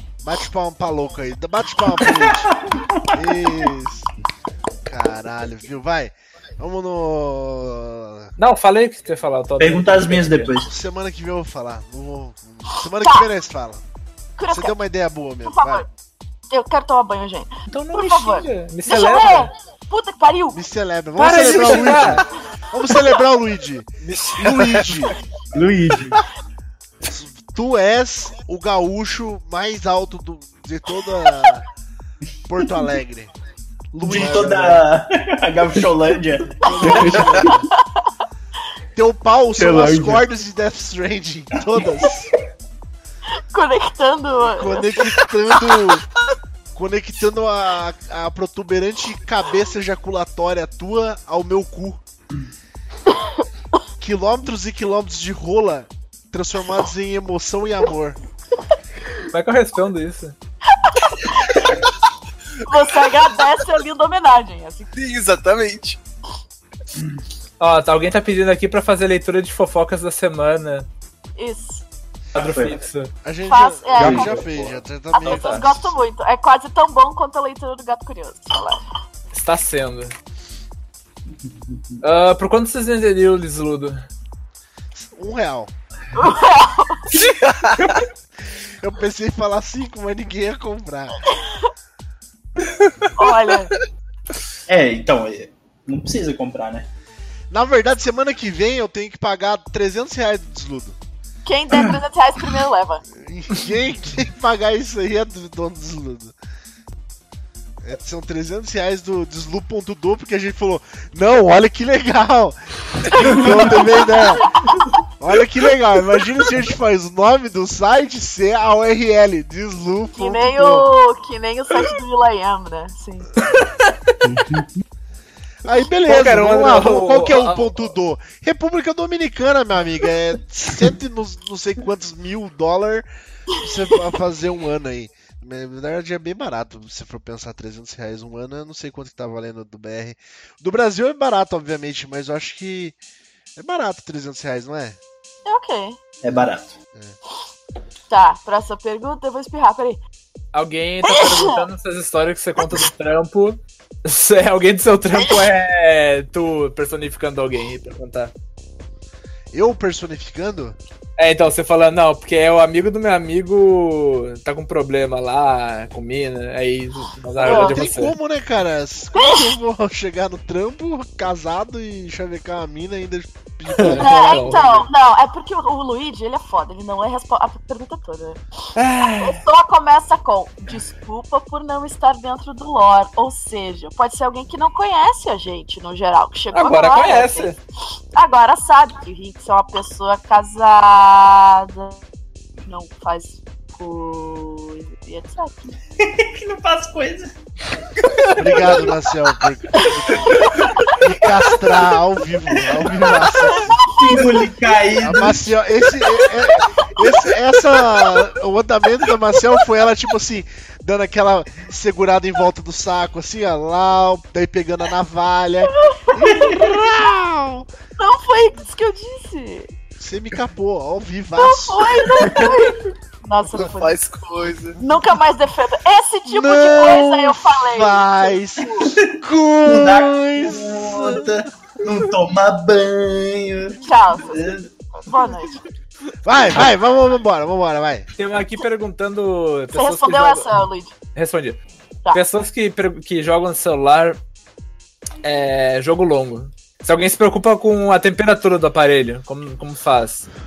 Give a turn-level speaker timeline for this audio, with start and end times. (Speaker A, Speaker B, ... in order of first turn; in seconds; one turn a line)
Speaker A: 0.2-2.5
Speaker B: 2.5-3.0
Speaker A: 3.1-4.1
Speaker A: 4.9-8.3
Speaker C: 8.4-10.5
Speaker B: 9.6-10.7
Speaker A: 10.7-13.8
Speaker D: 14.4-14.8
Speaker A: 14.5-15.8
Speaker D: 15.4-15.9
Speaker D: 16.5-20.6
Speaker C: 17.7-19.5
Speaker A: 20.5-25.1
Speaker C: 21.2-22.2
Speaker E: 24.0-24.5
Speaker F: 25.5-26.2
Speaker A: 27.1-31.7
Speaker A: 32.5-33.3
Speaker A: 33.9-34.8
Speaker B: 34.0-37.2
Speaker A: 36.6-37.7
Speaker D: 36.6-36.9
Speaker F: 36.8-37.5
Speaker D: 37.5-37.8
Speaker A: 39.0-42.3
Speaker F: 39.6-40.3
Speaker D: 43.5-45.1
Speaker A: 44.4-46.0
Speaker A: 46.8-52.0
Speaker A: 54.0-58.2
Speaker C: 59.3-60.4
Speaker D: 60.7-61.7
Speaker D: 62.7-64.9
Speaker E: 64.9-66.0
Speaker C: 67.6-70.9
Speaker D: 71.4-71.8
Speaker B: 72.3-72.8
Speaker C: 72.4-73.1
Speaker A: 73.2-76.0
Speaker D: 73.5-74.5
Speaker D: 75.1-78.8
Speaker C: 75.2-75.7
Speaker C: 79.3-80.2
Speaker B: 81.5-82.0
Speaker C: 82.0-84.0
Speaker A: 85.0-85.7
Speaker D: 86.2-87.0
Speaker E: 87.3-88.0
Speaker A: 88.8-91.2
Speaker D: 91.3-91.7
Speaker D: 93.2-93.7
Speaker B: 94.7-96.9
Speaker A: 97.5-101.0
Speaker D: 101.5-103.0
Speaker A: 103.2-106.3
Speaker A: 107.8-114.5
Speaker D: 113.1-114.8
Speaker A: 115.2-120.9
Speaker D: 120.1-123.3
Speaker C: 123.6-123.9
Speaker F: 124.2-124.7
Speaker A: 125.7-133.1
Speaker C: 126.1-127.9
Speaker A: 133.6-143.0
Speaker A: 143.6-145.0
Speaker D: 145.5-146.0
Speaker B: 146.2-146.8
Speaker D: 148.1-150.0
Speaker C: 150.5-158.3
Speaker D: 151.0-151.6
Speaker A: 159.5-160.8
Speaker C: 161.2-168.2
Speaker D: 167.4-167.8
Speaker A: 167.4-174.8
Speaker D: 169.2-169.5
Speaker C: 173.8-174.8
Speaker D: 173.8-178.4
Speaker C: 178.8-179.4
Speaker D: 179.2-187.5
Speaker C: 186.5-187.6
Speaker D: 188.2-192.0
Speaker D: 192.7-195.7
Speaker B: 196.0-197.3
Speaker A: 198.4-203.8
Speaker D: 199.7-201.0
Speaker D: 203.1-204.3
Speaker B: 203.9-205.5
Speaker A: 205.0-217.7
Speaker D: 206.2-208.2
Speaker D: 215.6-216.7
Speaker D: 218.0-219.7
Speaker A: 220.0-222.5
Speaker D: 221.4-224.0
Speaker E: 223.6-224.8
Speaker D: 224.8-228.9
Speaker A: 226.3-231.3
Speaker B: 228.8-234.7
Speaker D: 233.8-234.4
Speaker D: 234.9-235.6
Speaker A: 236.2-238.1
Speaker C: 238.2-240.5
Speaker D: 239.7-240.9
Speaker C: 241.2-241.6
Speaker C: 242.1-244.2
Speaker C: 245.2-250.3